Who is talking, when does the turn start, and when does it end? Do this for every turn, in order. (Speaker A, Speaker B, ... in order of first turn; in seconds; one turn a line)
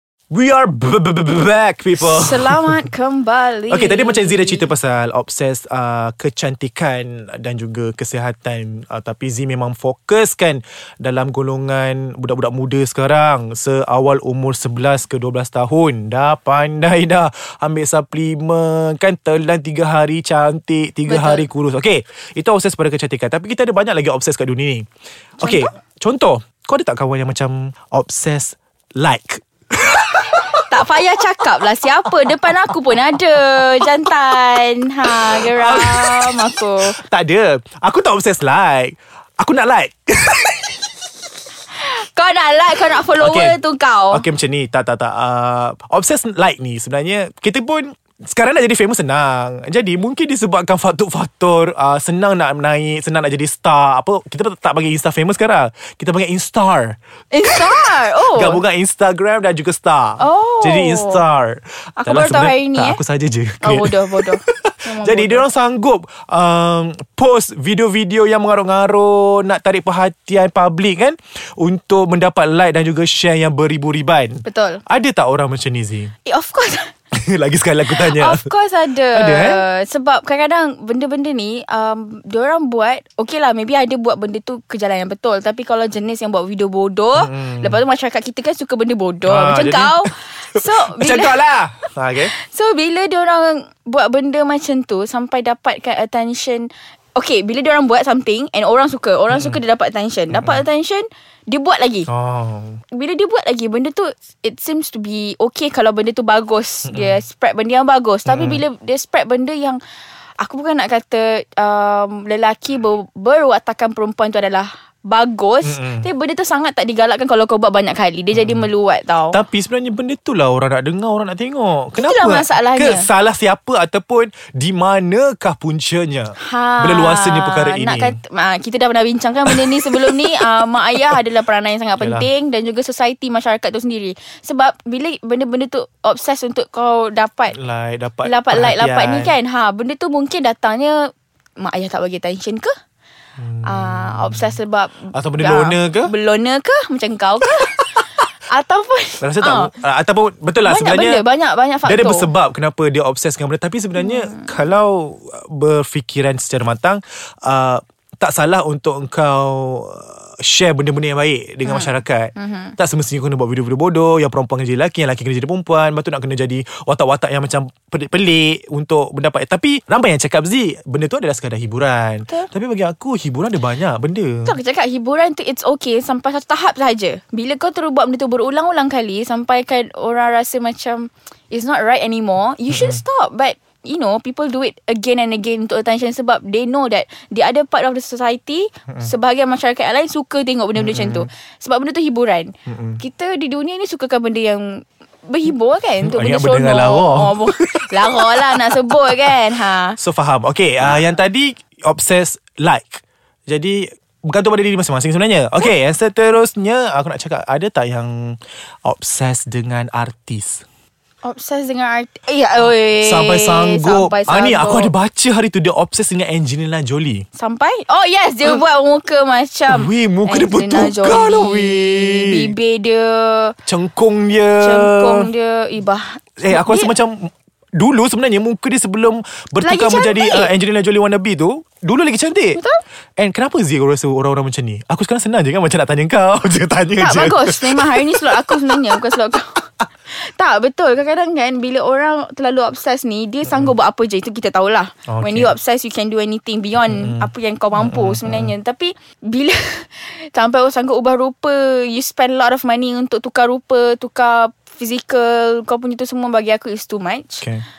Speaker A: 0.3-2.8
Speaker B: 2.0-4.7
Speaker A: 3.7-24.9
Speaker B: 21.1-21.5
Speaker A: 25.4-30.6
Speaker B: 25.4-25.7
Speaker B: 30.7-37.0
Speaker A: 35.3-40.8
Speaker B: 41.7-44.2
Speaker A: 43.2-43.6
Speaker A: 44.1-76.1
Speaker B: 57.3-58.6
Speaker B: 60.2-61.2
Speaker B: 62.0-63.0
Speaker B: 63.6-65.5
Speaker B: 74.5-74.8
Speaker B: 76.2-76.9
Speaker A: 77.1-78.5
Speaker B: 77.9-91.4
Speaker A: 79.1-79.6
Speaker A: 87.2-87.8
Speaker A: 89.3-92.3
Speaker B: 92.3-102.1
Speaker A: 99.3-99.6
Speaker A: 100.3-100.6
Speaker A: 102.1-102.8
Speaker B: 102.9-109.8
Speaker A: 106.9-107.2
Speaker A: 108.3-108.6
Speaker B: 110.4-119.4
Speaker A: 115.6-116.1
Speaker A: 118.3-118.7
Speaker A: 119.3-128.2
Speaker B: 122.0-123.1
Speaker B: 126.4-137.6
Speaker A: 129.5-130.5
Speaker A: 132.0-132.3
Speaker A: 137.5-139.4
Speaker B: 138.2-141.0
Speaker B: 141.6-142.7
Speaker A: 143.4-144.6
Speaker B: 143.6-147.8
Speaker A: 145.1-146.1
Speaker B: 148.5-149.7
Speaker A: 149.2-151.2
Speaker B: 150.6-152.3
Speaker A: 151.8-174.6
Speaker B: 154.0-154.5
Speaker B: 161.6-162.7
Speaker B: 174.4-200.0
Speaker A: 182.7-183.0
Speaker A: 190.8-191.3
Speaker A: 192.7-193.0
Speaker A: 196.0-199.4
Speaker A: 200.0-210.6
Speaker B: 211.2-214.9
Speaker A: 213.0-217.3
Speaker B: 217.4-223.6
Speaker A: 219.7-222.5
Speaker A: 223.7-225.3
Speaker B: 224.6-226.9
Speaker A: 226.4-232.6
Speaker B: 229.6-230.5
Speaker A: 233.2-239.2
Speaker B: 237.0-257.5
Speaker A: 243.5-243.8
Speaker A: 245.1-245.5
Speaker A: 246.8-248.5